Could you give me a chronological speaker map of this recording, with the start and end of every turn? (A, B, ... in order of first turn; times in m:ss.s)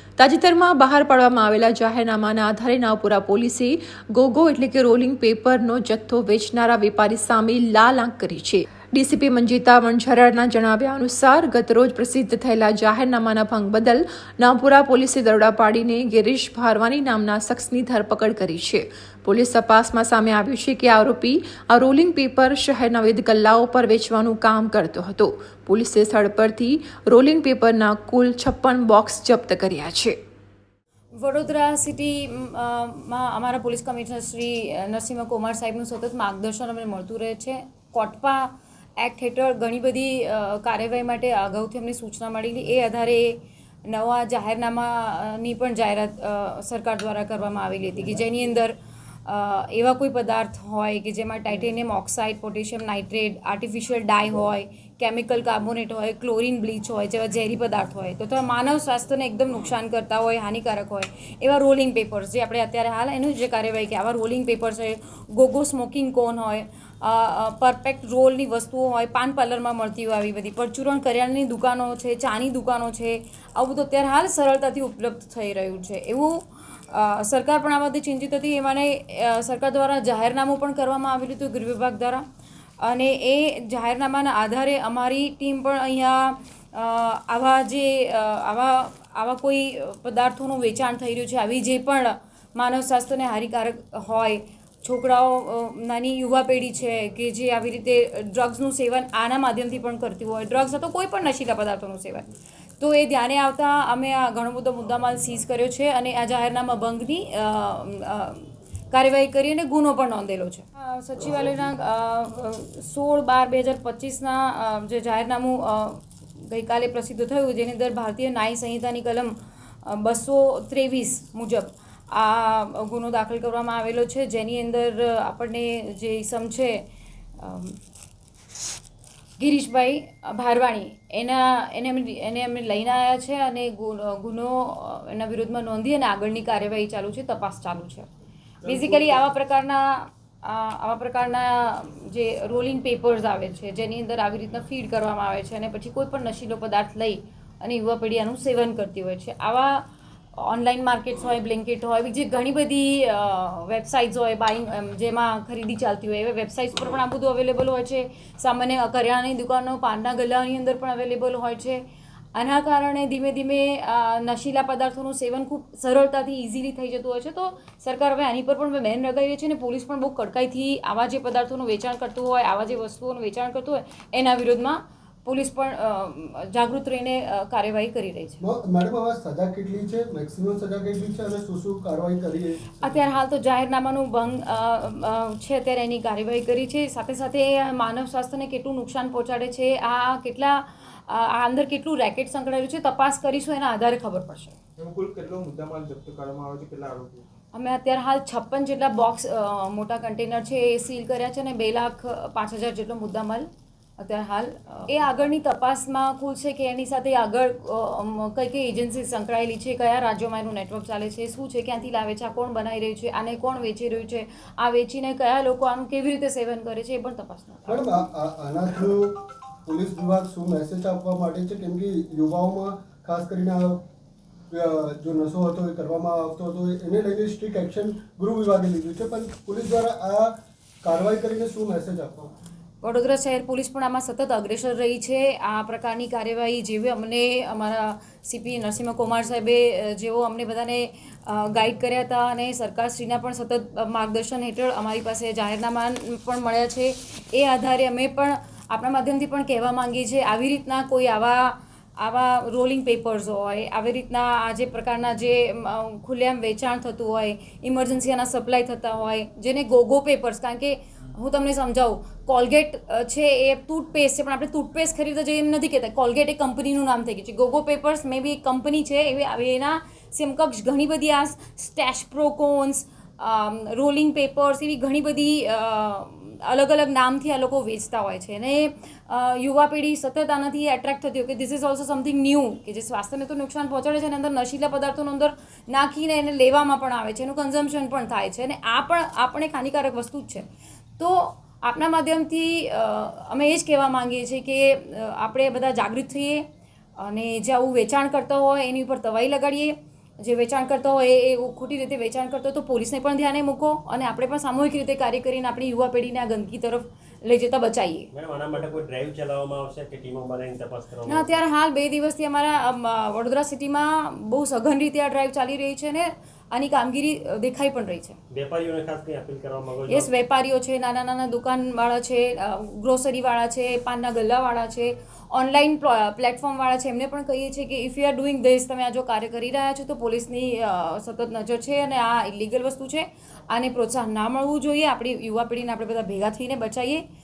0:00.4-0:01.0 A
0:00.7-0:14.0 B
0:01.6-0:02.2 A
0:05.4-0:05.9 A
0:06.9-0:07.5 A
0:08.1-0:08.6 A
0:11.7-0:12.1 A
0:14.6-0:20.2 B
0:17.9-0:18.3 A
0:19.7-0:20.7 A
0:20.7-0:30.1 B
0:31.2-0:48.7 A
0:49.3-1:22.2 A
1:22.8-2:06.9 A
2:07.4-2:07.8 A
2:09.4-2:18.1 A
2:18.7-2:41.8 A
2:18.7-2:19.2 C
2:42.3-2:58.4 A
2:58.4-3:03.1 D
3:02.9-3:14.6 A
3:14.8-3:17.2 C
3:17.5-3:37.9 A
3:37.7-3:43.9 D
3:44.5-3:52.3 D
3:52.8-4:50.5 A
4:51.0-4:56.4 A
4:57.0-5:08.1 A
5:08.1-5:11.3 E
5:11.0-5:18.2 A
5:18.3-5:20.2 E
5:19.9-5:37.0 A